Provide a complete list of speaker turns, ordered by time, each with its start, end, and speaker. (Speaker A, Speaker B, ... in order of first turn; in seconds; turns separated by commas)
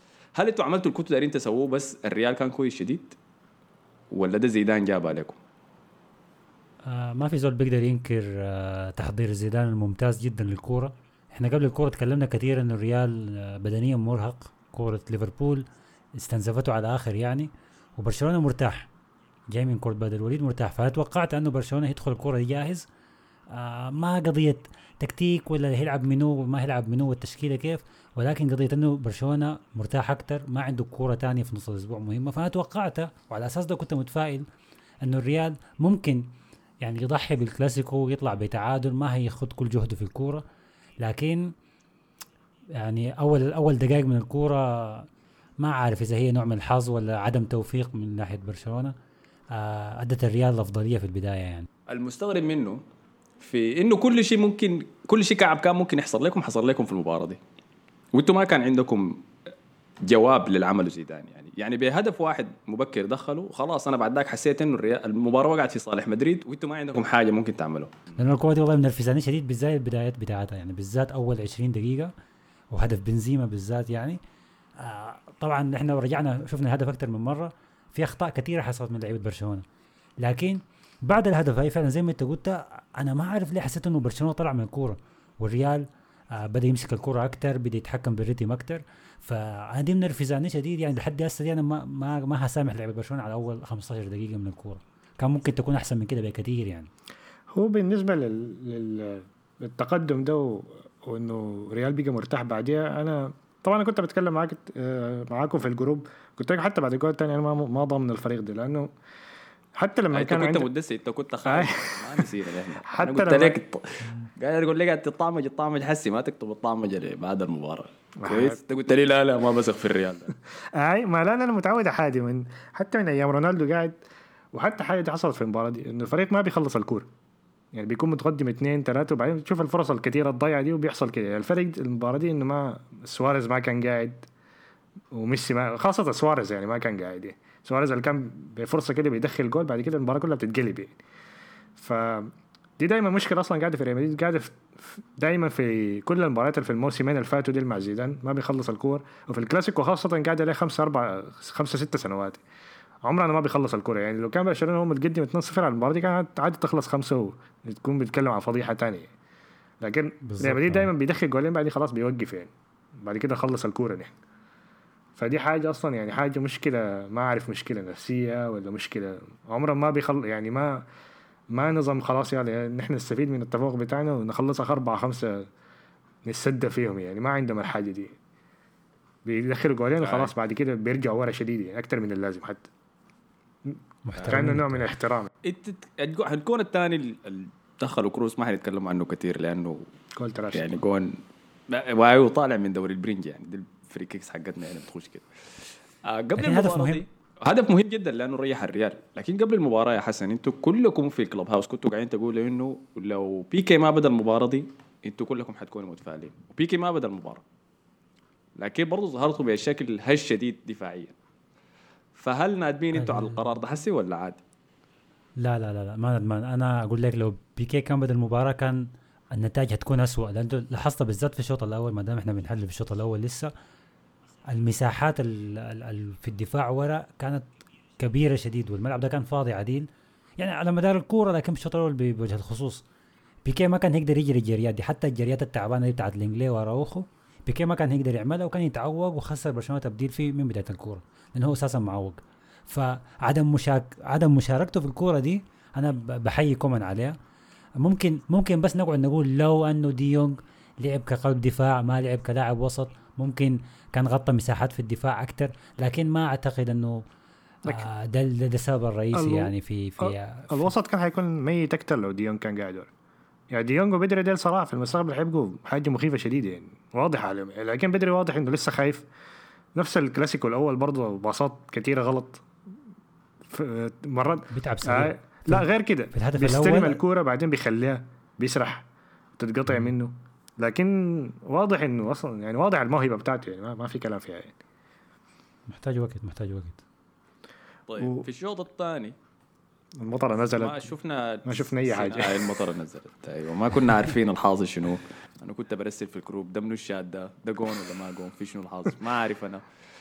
Speaker A: 0.3-3.2, Speaker A: 4.1-5.4, Speaker B: 6.8-15.6, Speaker B: 16.2-18.9, Speaker B: 19.5-22.9, Speaker B: 23.5-34.5, Speaker B: 35.0-36.3, Speaker B: 36.8-40.4, Speaker B: 41.0-41.5, Speaker B: 42.8-45.1, Speaker B: 45.6-48.9, Speaker B: 49.5-51.7, Speaker A: 51.9-52.8, Speaker A: 53.4-57.4, Speaker A: 58.1-59.2, Speaker A: 60.0-68.1, Speaker B: 68.2-72.1, Speaker B: 72.7-74.2, Speaker B: 74.8-79.6, Speaker B: 80.2-96.9, Speaker C: 97.5-108.9, Speaker C: 109.8-110.7, Speaker A: 110.1-120.3, Speaker C: 111.4-112.3, Speaker C: 112.8-113.6, Speaker C: 118.2-118.6, Speaker C: 120.7-124.0, Speaker C: 124.5-127.1, Speaker C: 127.7-134.3, Speaker C: 135.1-140.9, Speaker C: 141.8-152.4, Speaker C: 153.0-159.1, Speaker C: 159.8-164.1, Speaker B: 160.2-160.9, Speaker C: 165.2-170.8, Speaker C: 171.5-175.5, Speaker C: 176.2-178.2, Speaker C: 179.2-182.7, Speaker A: 180.0-180.3, Speaker C: 183.7-185.3, Speaker B: 184.1-184.9, Speaker A: 185.4-189.8, Speaker C: 190.2-190.8, Speaker A: 190.5-191.2, Speaker A: 191.7-195.3, Speaker A: 196.0-207.4, Speaker B: 196.4-197.0, Speaker A: 208.6-211.1, Speaker A: 212.2-214.4, Speaker B: 212.9-213.4, Speaker B: 215.4-223.5, Speaker B: 224.5-227.4, Speaker B: 228.0-229.9, Speaker B: 230.4-232.8, Speaker B: 233.4-247.2, Speaker B: 247.8-257.0, Speaker B: 257.6-260.7, Speaker C: 259.1-262.9, Speaker C: 263.5-269.1, Speaker C: 269.7-272.5, Speaker C: 273.5-278.9, Speaker B: 274.5-277.0, Speaker C: 279.4-284.5, Speaker B: 285.7-286.8, Speaker A: 287.9-289.1, Speaker C: 288.0-288.2, Speaker C: 290.0-290.8, Speaker A: 290.4-299.6, Speaker C: 291.4-292.6